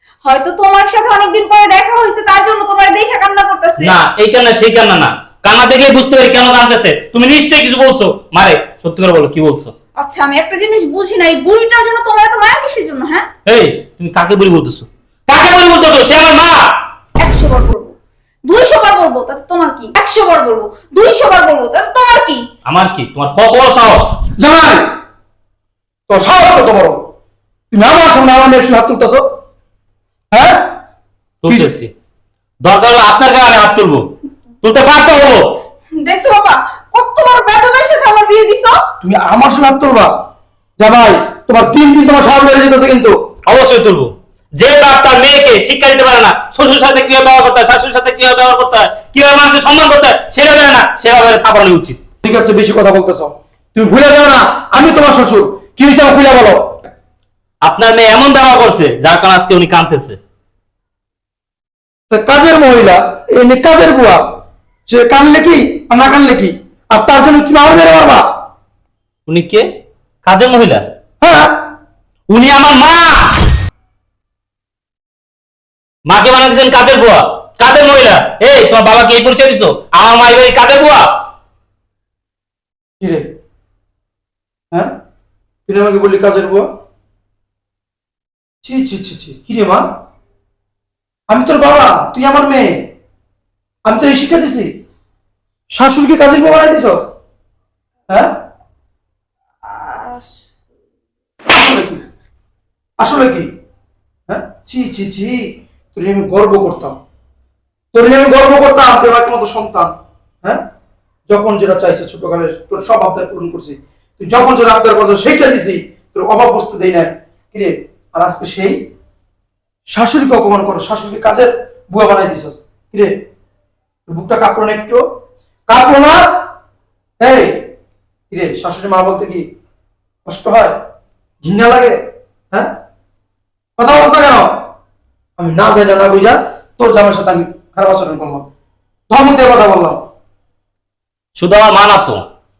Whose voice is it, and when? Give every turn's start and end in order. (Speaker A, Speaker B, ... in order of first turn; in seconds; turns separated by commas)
Speaker A: 0.2-3.9, Speaker B: 3.8-9.7, Speaker A: 10.0-13.3, Speaker B: 13.4-16.6, Speaker A: 17.2-17.9, Speaker A: 18.5-22.4, Speaker B: 22.6-24.1, Speaker C: 24.4-24.9, Speaker C: 26.1-27.0, Speaker C: 27.7-29.2, Speaker C: 30.3-30.7, Speaker B: 31.4-31.9, Speaker B: 32.6-34.1, Speaker B: 34.6-35.5, Speaker A: 36.0-38.8, Speaker C: 39.0-40.1, Speaker C: 40.8-43.1, Speaker B: 43.5-52.0, Speaker C: 52.2-56.7, Speaker B: 57.6-60.2, Speaker C: 62.1-64.2, Speaker C: 64.9-68.2, Speaker B: 69.3-69.7, Speaker B: 70.2-70.8, Speaker C: 71.2-71.6, Speaker B: 72.3-73.3, Speaker B: 76.1-81.0, Speaker C: 83.0-83.2, Speaker C: 85.7-86.7, Speaker C: 88.6-89.8, Speaker C: 91.3-92.9, Speaker C: 93.9-94.7, Speaker C: 95.7-97.0, Speaker A: 99.7-100.4, Speaker C: 101.5-102.0, Speaker C: 103.0-103.5, Speaker C: 104.3-107.0, Speaker C: 107.9-110.6, Speaker C: 111.3-118.8, Speaker C: 119.9-123.1, Speaker C: 124.1-125.0, Speaker C: 125.7-126.2, Speaker C: 127.2-127.6, Speaker C: 128.3-129.4, Speaker C: 130.2-130.7, Speaker C: 131.4-131.9, Speaker C: 133.8-134.5, Speaker C: 135.4-138.5, Speaker C: 139.1-140.0, Speaker B: 141.4-142.2